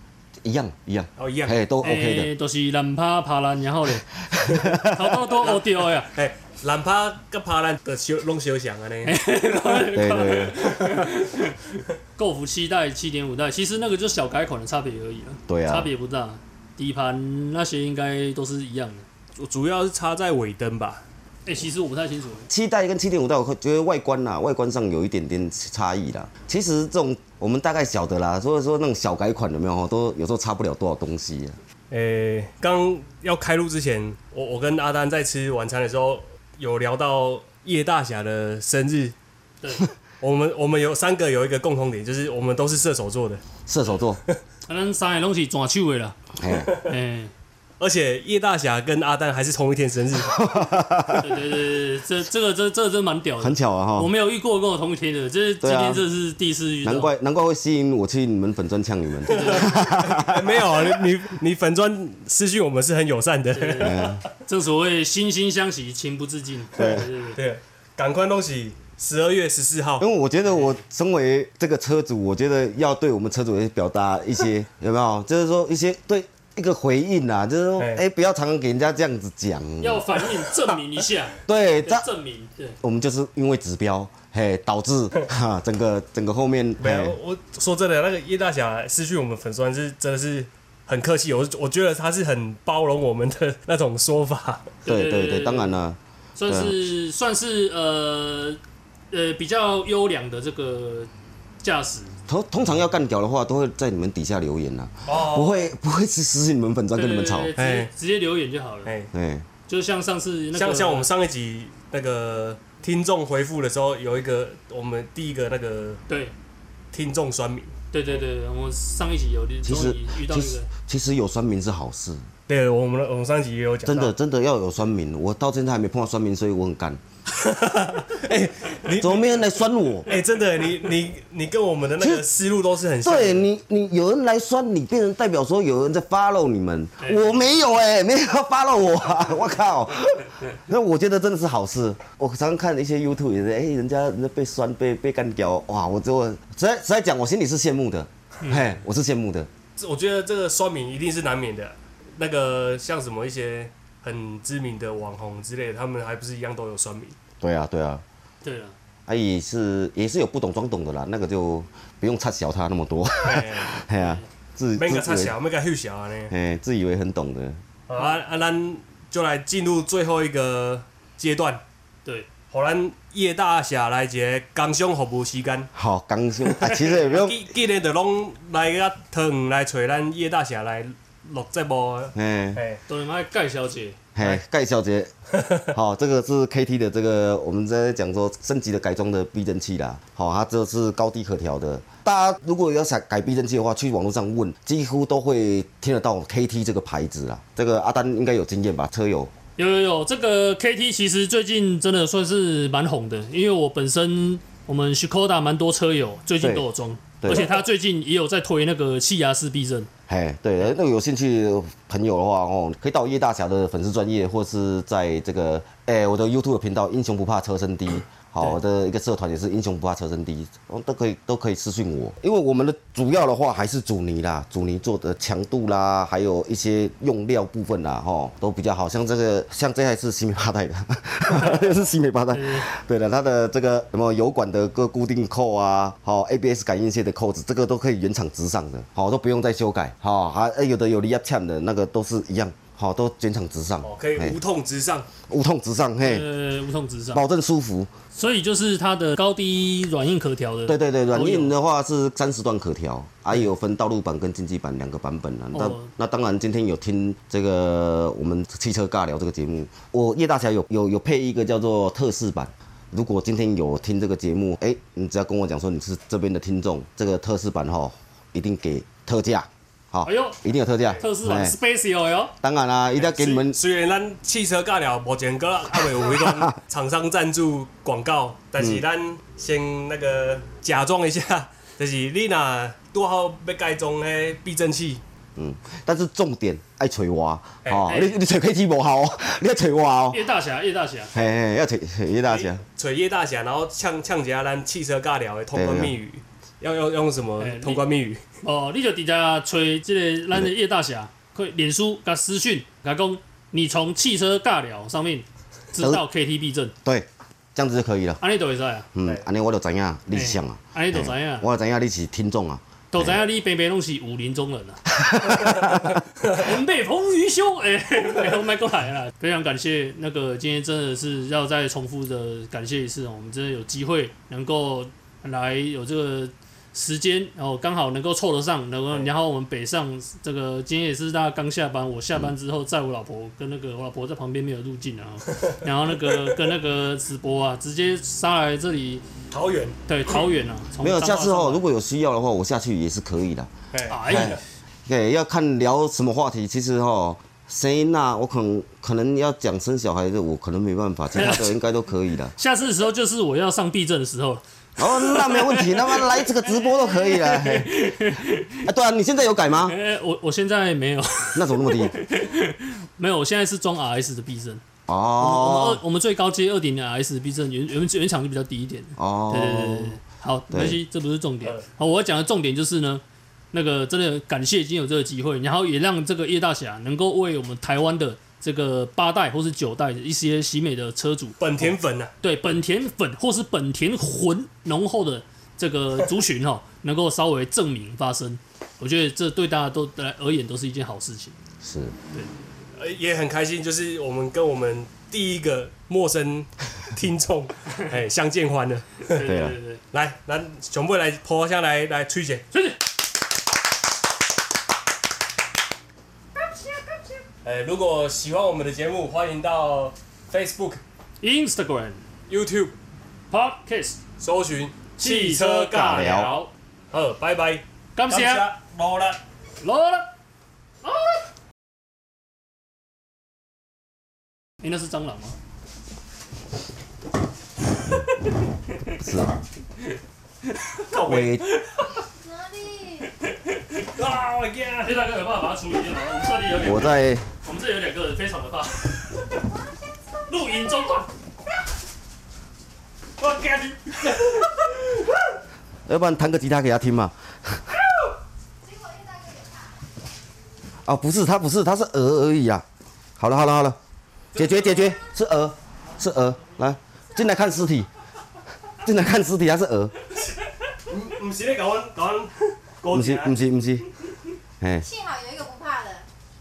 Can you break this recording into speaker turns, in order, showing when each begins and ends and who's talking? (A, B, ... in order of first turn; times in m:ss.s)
0:00.4-0:02.3 A
0:01.2-0:01.6 B
0:01.8-0:06.1 C
0:04.3-0:05.2 A
0:05.4-0:09.9 B
0:09.0-0:11.6 C
0:09.9-0:10.5 A
0:10.8-0:11.0 B
0:12.2-0:19.0 C
0:15.5-0:15.9 A
0:19.4-0:21.0 B
0:21.4-0:22.5 C
0:22.5-0:31.6 A
0:31.9-0:39.1 B
0:40.2-0:43.4 B
0:43.6-0:44.2 A
0:44.7-0:46.2 C
0:46.4-0:46.8 A
0:46.8-0:47.3 C
0:47.8-0:50.3 B
0:50.3-0:51.4 A
0:51.1-0:57.1 C
0:53.4-0:54.1 A
0:55.6-0:56.0 A
0:56.8-1:01.0 A
0:59.3-1:04.2 B
0:59.3-1:00.1 C
1:03.5-1:07.4 C
1:03.8-1:04.2 A
1:06.8-1:07.1 A
1:07.3-1:10.0 B
1:10.0-1:20.2 A
1:17.8-1:18.0 B
1:19.8-1:22.8 C
1:21.4-1:22.0 A
1:22.8-1:27.2 A
1:26.8-1:34.7 B
1:34.8-1:35.8 C
1:34.8-1:36.8 A
1:36.4-1:38.6 C
1:39.1-1:41.1 C
1:41.6-1:42.1 C
1:42.3-1:47.5 A
1:45.1-1:45.7 B
1:46.9-1:48.9 C
1:47.6-1:47.9 B
1:48.8-1:49.1 B
1:49.1-1:49.4 A
1:49.7-1:51.1 C
1:50.5-1:56.0 B
1:56.9-1:57.7 B
1:57.9-2:00.7 C
1:59.6-2:02.2 A
2:02.5-2:04.1 B
2:03.8-2:07.0 A
2:07.4-2:13.5 B
2:08.9-2:10.1 A
2:13.0-2:29.5 A
2:28.4-2:28.7 C
2:29.8-2:37.2 B
2:37.4-2:38.0 A
2:38.4-2:38.7 C
2:39.1-2:45.4 A
2:43.2-2:43.7 B
2:43.9-2:44.2 C
2:44.8-2:46.3 B
2:46.3-2:47.6 A
2:47.9-2:51.6 B
2:52.5-2:55.7 B
2:55.7-2:57.5 A
2:56.5-3:02.8 B
3:02.1-3:02.6 A
3:02.9-3:04.0 C
3:04.1-3:05.1 A
3:05.3-3:05.7 B
3:05.7-3:19.3 A
3:19.6-3:29.9 C
3:26.4-3:26.6 A
3:27.2-3:27.5 A
3:30.1-4:04.4 A
3:52.3-3:52.7 C
4:03.8-4:05.1 B
4:05.2-4:06.2 A
4:06.0-4:07.2 C
4:07.1-4:07.9 A
4:08.1-4:11.5 C
4:10.6-4:31.6 A
4:15.5-4:15.9 C
4:30.0-4:30.4 C
4:31.0-4:32.3 C
4:32.4-4:33.6 A
4:33.0-4:45.0 B
4:45.4-4:50.2 A
4:47.6-4:47.9 B
4:47.9-4:48.1 C
4:50.1-4:51.1 C
4:51.1-4:52.6 A
4:52.3-4:58.2 B
4:55.5-4:55.9 A
4:57.4-4:57.8 C
4:58.4-5:06.7 C
5:05.8-5:06.0 A
5:06.8-5:08.2 A
5:08.2-5:08.9 C
5:08.9-5:13.2 A
5:10.1-5:11.5 C
5:12.9-5:14.8 C
5:15.0-5:16.0 A
5:16.3-5:39.0 C
5:35.3-5:36.5 B
5:39.3-5:39.8 B
5:39.9-5:41.6 C
5:40.8-5:43.5 A
5:43.7-5:44.4 B
5:43.9-5:44.4 C
5:44.0-5:52.3 A
5:51.1-5:51.5 C
5:52.4-5:58.7 C
5:54.8-5:57.8 A
5:58.6-5:59.8 A
5:59.6-6:04.6 C
6:01.3-6:02.0 A
6:04.9-6:05.8 A
6:05.2-6:31.3 C
6:09.0-6:10.0 A
6:10.5-6:10.8 A
6:21.4-6:22.1 B
6:31.6-6:31.9 A
6:32.7-6:39.2 B
6:39.1-6:39.8 C
6:39.2-6:39.6 A
6:39.9-6:42.4 B
6:42.5-6:42.8 C
6:46.4-6:47.0 C
6:47.4-6:50.8 B
6:51.2-6:52.0 C
6:52.3-6:52.7 B
6:53.3-6:54.0 C
6:54.2-6:56.3 B
6:55.0-6:56.5 C
6:55.9-6:56.3 A
6:56.9-6:59.2 B
6:57.9-6:58.5 C
6:59.6-7:00.1 C
7:00.8-7:01.2 C
7:04.6-7:05.3 C
7:09.0-7:09.4 A
7:10.8-7:11.9 B
7:11.0-7:11.5 A
7:12.2-7:13.1 D
7:13.9-7:15.0 B
7:14.8-7:19.1 C
7:16.6-7:17.2 A
7:20.3-7:21.1 C
7:23.2-7:24.4 C
7:25.8-7:27.7 A
7:28.6-7:29.8 D
7:30.8-7:32.6 A
7:33.2-7:33.8 A
7:34.3-7:37.9 A
7:38.8-7:39.9 A
7:40.9-7:43.4 B
7:42.9-7:43.9 A
7:44.6-7:44.8 A
7:44.8-7:46.0 D